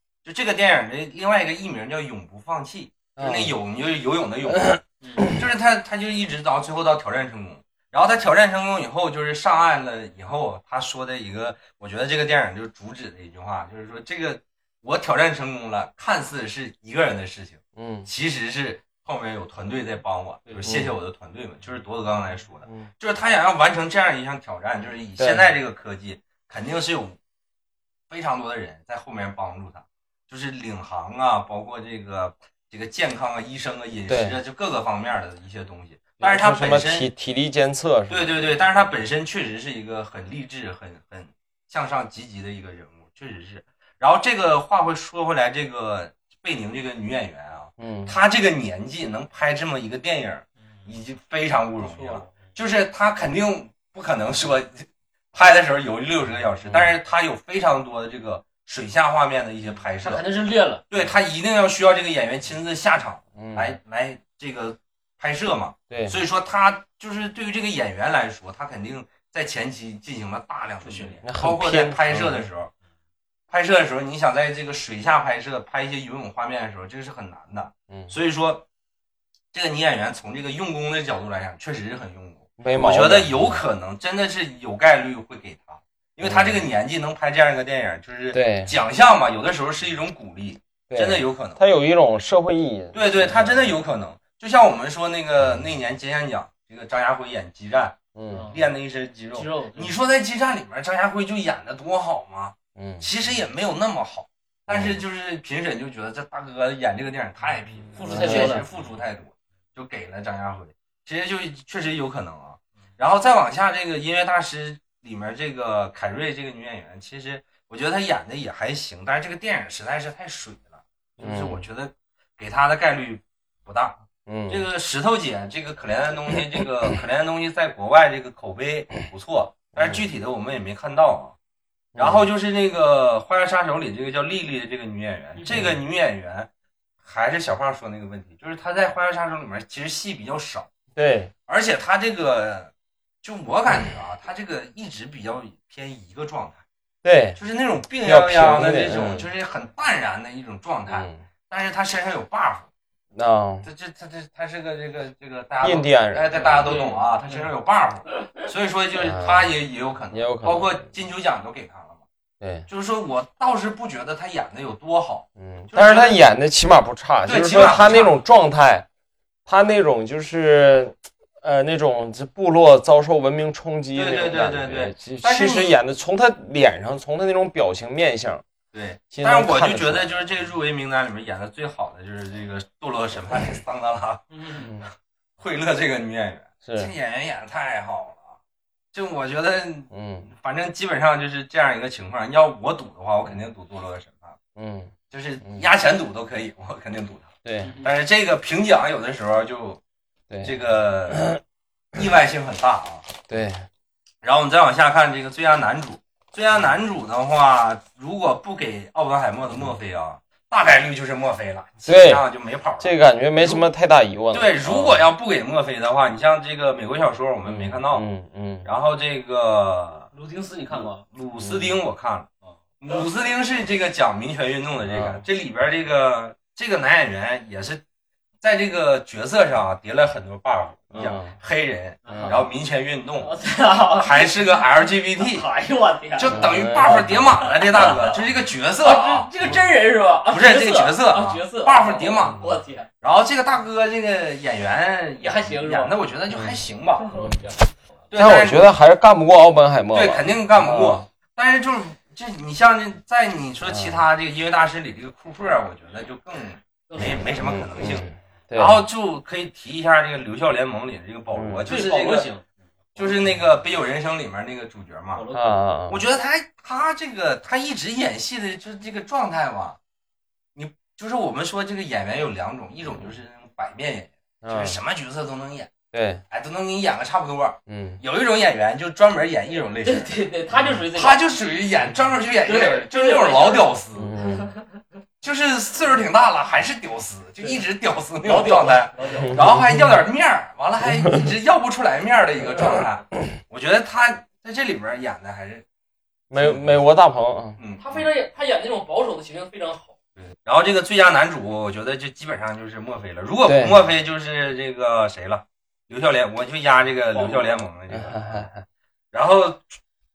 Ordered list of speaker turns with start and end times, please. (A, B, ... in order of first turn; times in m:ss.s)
0:00.2-0:27.2 A
0:03.2-0:03.5 B
0:04.5-0:05.4 B
0:05.0-0:05.3 C
0:17.8-0:18.1 B
0:20.6-0:20.9 B
0:25.2-0:25.5 B
0:28.1-0:37.1 A
0:34.1-0:34.4 B
0:36.2-0:38.4 B
0:38.1-1:00.2 A
0:47.8-0:48.1 B
0:51.8-0:52.4 C
0:56.6-0:56.9 B
0:59.7-1:00.8 C
1:00.9-1:12.7 A
1:03.3-1:03.8 B
1:05.9-1:06.2 B
1:10.8-1:11.2 C
1:11.2-1:12.4 B
1:13.5-1:18.6 A
1:19.5-1:31.6 A
1:22.6-1:23.6 B
1:26.2-1:26.6 B
1:28.3-1:28.7 B
1:30.9-1:33.7 B
1:32.9-1:38.0 A
1:38.1-1:38.5 B
1:38.3-1:38.7 C
1:38.5-2:11.3 A
1:39.3-1:40.0 C
1:42.7-1:43.1 B
1:44.7-1:45.0 B
1:47.9-1:48.6 B
1:47.9-1:48.7 C
2:01.2-2:01.6 B
2:04.2-2:04.6 B
2:09.7-2:10.0 B
2:11.9-2:12.3 B
2:12.0-2:16.5 A
2:15.5-2:15.8 B
2:17.0-2:20.7 A
2:21.0-2:21.3 B
2:21.5-2:26.6 A
2:27.0-2:27.4 B
2:27.4-2:32.7 A
2:28.0-2:29.3 B
2:30.9-2:31.2 B
2:33.1-2:33.7 B
2:33.6-2:42.0 A
2:35.6-2:36.8 B
2:36.6-2:37.5 C
2:38.9-2:39.5 B
2:40.1-2:40.9 B
2:42.4-2:42.7 B
2:42.7-2:46.2 A
2:45.4-2:48.8 B
2:47.2-2:48.2 A
2:49.4-2:58.4 B
2:53.9-2:55.8 A
2:58.7-3:04.2 A
2:59.1-3:00.1 B
3:04.3-3:04.7 C
3:04.6-3:04.9 B
3:05.4-3:08.4 A
3:06.6-3:06.9 B
3:08.9-3:14.4 A
3:09.9-3:10.3 B
3:14.6-3:15.7 B
3:15.1-3:19.8 A
3:17.4-3:17.7 B
3:17.6-3:17.9 C
3:20.4-3:21.3 A
3:21.1-3:21.4 B
3:21.9-3:23.1 A
3:23.3-3:23.7 B
3:24.2-3:33.7 A
3:31.8-3:32.2 B
3:32.8-3:35.0 B
3:34.3-3:38.1 A
3:37.4-3:38.7 B
3:38.6-3:40.1 A
3:40.1-3:41.0 C
3:40.7-3:42.3 A
3:41.4-3:41.8 B
3:42.5-3:43.0 C
3:42.8-3:47.8 A
3:44.8-3:45.2 B
3:48.4-3:53.3 A
3:50.9-3:51.4 B
3:52.0-3:52.4 C
3:52.1-3:52.4 B
3:53.2-3:58.2 C
3:53.9-3:55.4 A
3:56.2-3:59.5 A
3:56.3-3:57.4 B
3:58.8-4:02.9 C
4:00.3-4:02.4 A
4:02.2-4:02.5 B
4:03.0-4:07.2 A
4:05.2-4:05.9 C
4:06.3-4:06.6 B
4:07.0-4:07.8 C
4:08.1-4:08.7 A
4:08.2-4:11.0 B
4:09.9-4:22.3 A
4:13.7-4:14.0 B
4:16.9-4:17.4 C
4:17.4-4:18.8 B
4:21.3-4:21.6 B
4:21.7-4:23.2 C
4:23.0-4:25.2 A
4:25.1-4:25.6 C
4:25.3-4:26.0 B
4:25.9-4:29.8 A
4:30.5-4:35.7 A
4:34.4-4:34.8 B
4:35.9-4:36.2 B
4:36.3-4:40.1 A
4:37.7-4:38.0 B
4:39.8-4:41.2 C
4:40.9-4:44.1 A
4:42.4-4:44.8 C
4:43.9-4:44.5 B
4:45.2-4:55.6 A
4:48.2-4:49.5 C
4:49.2-4:50.0 B
4:50.8-4:51.3 B
4:56.3-4:57.6 B
4:56.4-4:56.8 A
4:57.6-4:58.1 A
4:57.8-4:59.9 C
5:00.2-5:08.5 A
5:03.4-5:03.8 B
5:07.1-5:07.6 C
5:07.9-5:08.6 B
5:09.1-5:09.8 A